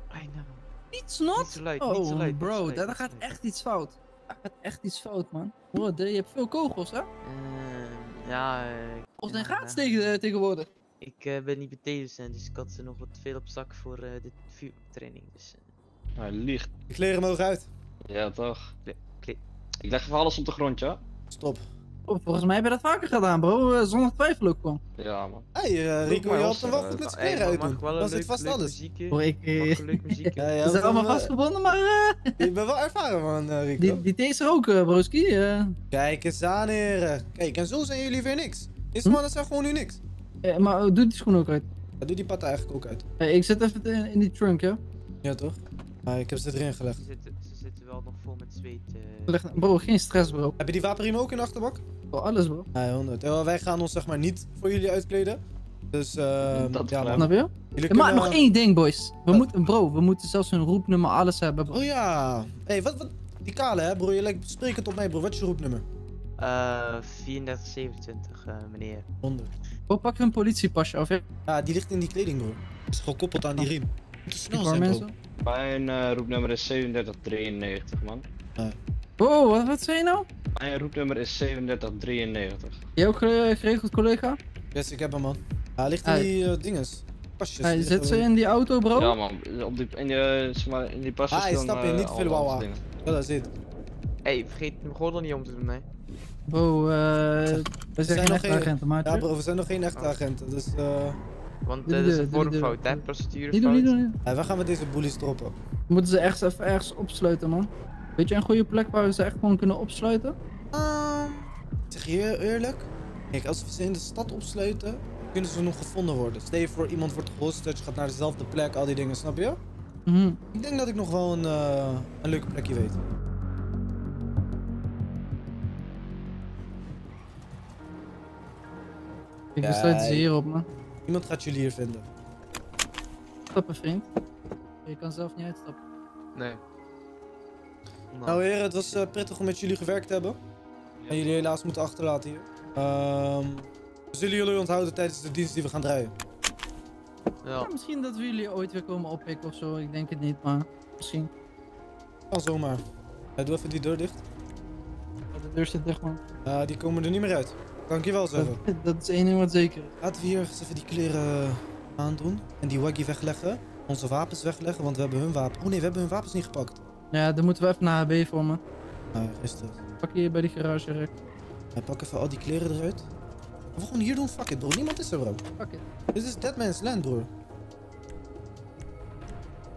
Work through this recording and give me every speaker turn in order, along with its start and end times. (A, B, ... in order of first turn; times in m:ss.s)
0:00.1-0:00.7 A
0:00.9-0:07.1 B
0:01.3-0:03.3 A
0:07.2-0:10.1 A
0:09.2-0:10.7 B
0:11.0-0:15.7 A
0:16.2-0:16.7 C
0:16.9-0:17.7 D
0:18.1-0:18.7 C
0:18.8-0:19.4 A
0:19.8-0:21.0 C
0:21.3-0:21.6 D
0:22.1-0:24.8 B
0:25.0-0:25.4 C
0:25.5-0:28.8 D
0:26.0-0:30.5 A
0:29.1-0:32.4 B
0:30.4-0:31.3 D
0:32.4-0:34.0 D
0:33.8-0:35.8 B
0:35.9-0:40.0 D
0:40.4-0:41.7 B
0:42.0-0:43.0 D
0:43.2-0:44.8 B
0:45.2-0:47.0 D
0:46.9-0:50.0 A
0:49.3-0:50.6 B
0:50.6-0:51.8 D
0:52.1-0:52.7 B
0:52.7-0:55.4 D
0:55.9-0:58.5 D
0:56.5-0:57.3 C
0:57.1-1:01.8 B
0:59.3-0:59.7 D
1:01.7-1:05.8 D
1:06.4-1:09.0 A
1:09.2-1:09.5 D
1:09.9-1:11.2 B
1:11.5-1:15.1 D
1:14.5-1:15.1 B
1:15.4-1:18.2 C
1:19.2-1:20.2 B
1:20.6-1:22.8 C
1:23.0-1:24.4 B
1:24.7-1:28.3 D
1:26.0-1:26.3 B
1:27.6-1:29.2 B
1:28.9-1:32.8 C
1:31.3-1:33.5 D
1:34.2-1:35.9 A
1:36.5-1:39.2 B
1:37.5-1:41.2 D
1:41.6-1:43.9 A
1:41.8-1:44.2 B
1:44.2-1:45.5 D
1:45.9-1:50.3 B
1:50.7-1:59.6 D
2:00.0-2:00.4 B
2:00.5-2:03.0 D
2:09.6-2:10.7 B
2:09.6-2:10.3 D
2:11.0-2:12.1 D
2:13.5-2:14.0 B
2:14.8-2:15.8 B
2:18.1-2:19.0 A
2:18.2-2:20.4 D
2:21.1-2:26.1 D
2:27.4-2:27.7 A
2:27.6-2:31.3 B
2:32.3-2:32.8 D
2:33.4-2:34.2 D
2:35.3-2:36.2 B
2:36.4-2:38.6 D
2:38.4-2:39.9 B
2:40.0-2:46.8 D
2:47.1-2:48.6 B
2:49.1-2:49.8 D
2:50.0-2:51.1 B
2:51.7-2:53.0 D
2:53.7-2:55.4 D
2:55.6-2:55.8 B
2:56.1-2:57.3 D